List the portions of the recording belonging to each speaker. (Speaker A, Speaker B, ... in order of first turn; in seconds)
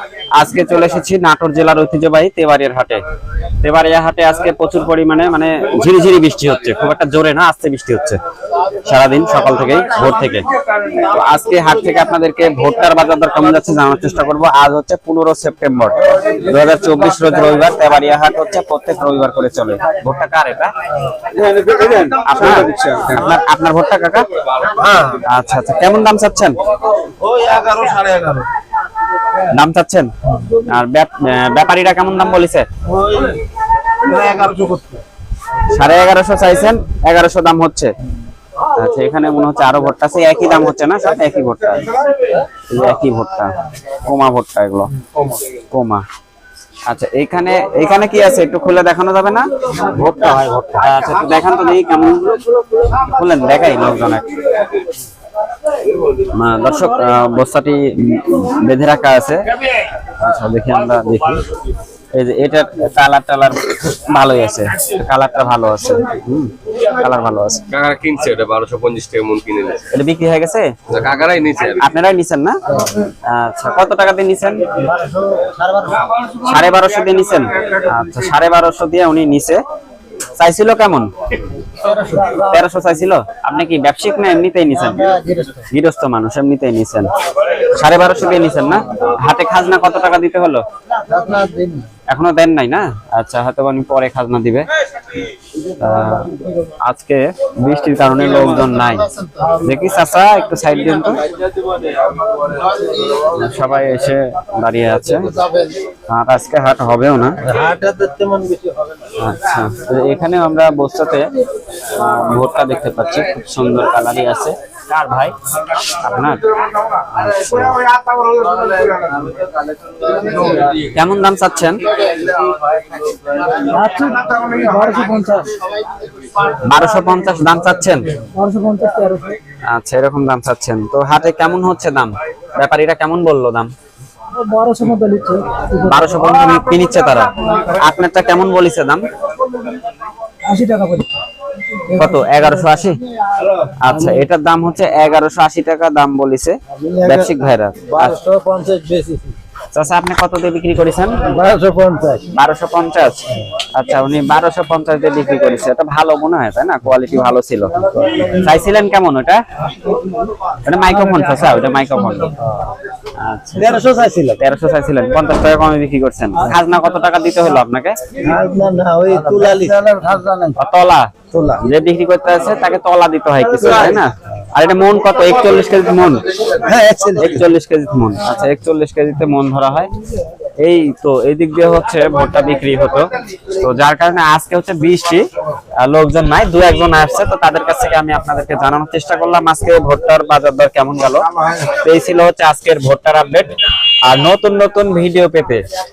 Speaker A: 0.3-3.0, 3.6-8.2, 8.8-20.7, 22.2-24.3, 25.3-26.6, 29.4-32.7, 35.7-37.9, 38.7-41.9, 42.7-44.9, 45.7-46.0, 46.9-49.5, 50.8-54.2, 56.3-59.4, 60.0-61.4, 62.1-67.6, 69.9-70.7, 71.7-72.6, 73.3-74.6, 76.4-79.6, 80.3-81.1, 82.3-85.1, 85.7-87.1, 87.7-90.6, 92.1-94.7, 95.8-96.3, 96.8-99.1, 99.6-101.2, 103.3-105.3, 106.1-107.4, 109.2-111.3, 111.9-115.3, 115.9-116.4, 117.0-118.0, 120.9-121.8, 126.6-128.1, 129.6-133.7, 135.8-139.0, 141.9-143.0, 143.8-148.1, 149.7-151.2, 152.3-157.7, 158.3-159.4, 160.6-162.4, 163.2-163.8, 164.4-168.0, 170.6-176.3, 177.1-179.9, 180.6-185.2, 185.8-195.6
Speaker B: 21.3-23.1, 24.8-25.1, 27.2-28.4, 34.0-34.8, 49.9-50.8, 74.9-76.2, 81.7-82.4, 84.9-85.6, 91.0-91.9, 99.3-99.6, 102.8-103.3, 105.2-105.8, 107.4-108.9, 146.7-147.3, 147.9-149.3, 151.3-152.2, 163.6-164.4, 168.2-170.6, 176.5-177.4
Speaker C: 21.4-21.9, 67.7-69.8, 70.9-71.8
Speaker D: 123.6-125.5, 128.3-129.4, 134.3-136.2, 140.4-141.2, 141.8-142.8